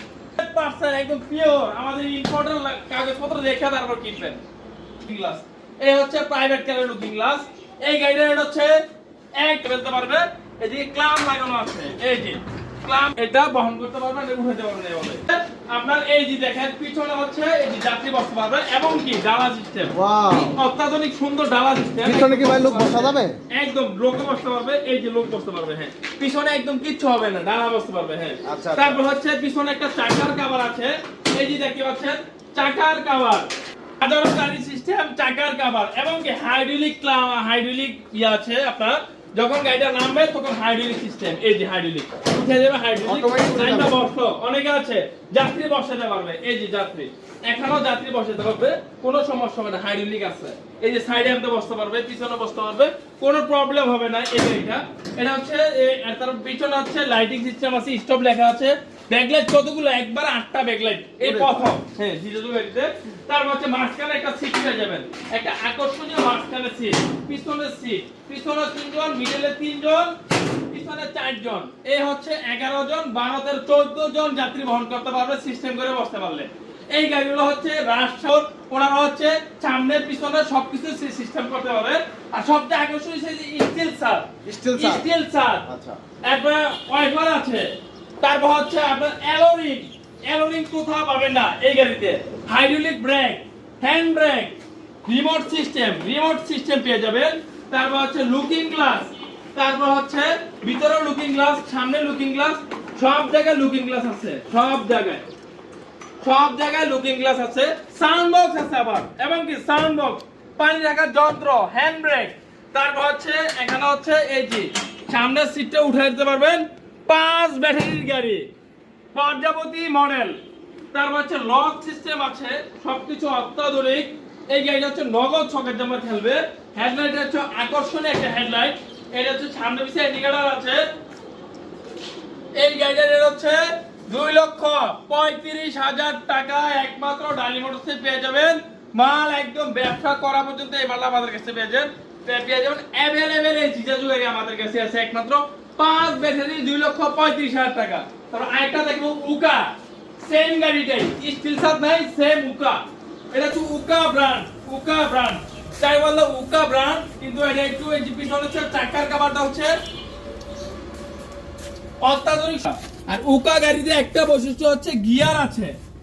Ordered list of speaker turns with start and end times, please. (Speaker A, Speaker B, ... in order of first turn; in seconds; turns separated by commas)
Speaker A: 0.3-4.4, Speaker A: 5.0-8.8, Speaker A: 9.4-33.5, Speaker B: 19.9-20.6, Speaker B: 22.0-23.4, Speaker B: 28.4-29.0, Speaker A: 34.0-70.2, Speaker B: 43.0-44.0, Speaker B: 61.2-61.7, Speaker A: 70.7-85.7, Speaker B: 84.4-85.1, Speaker B: 85.7-86.0, Speaker A: 86.2-105.3, Speaker A: 106.2-118.5, Speaker A: 119.1-120.4, Speaker A: 120.9-130.8, Speaker A: 132.6-159.8, Speaker A: 162.0-165.8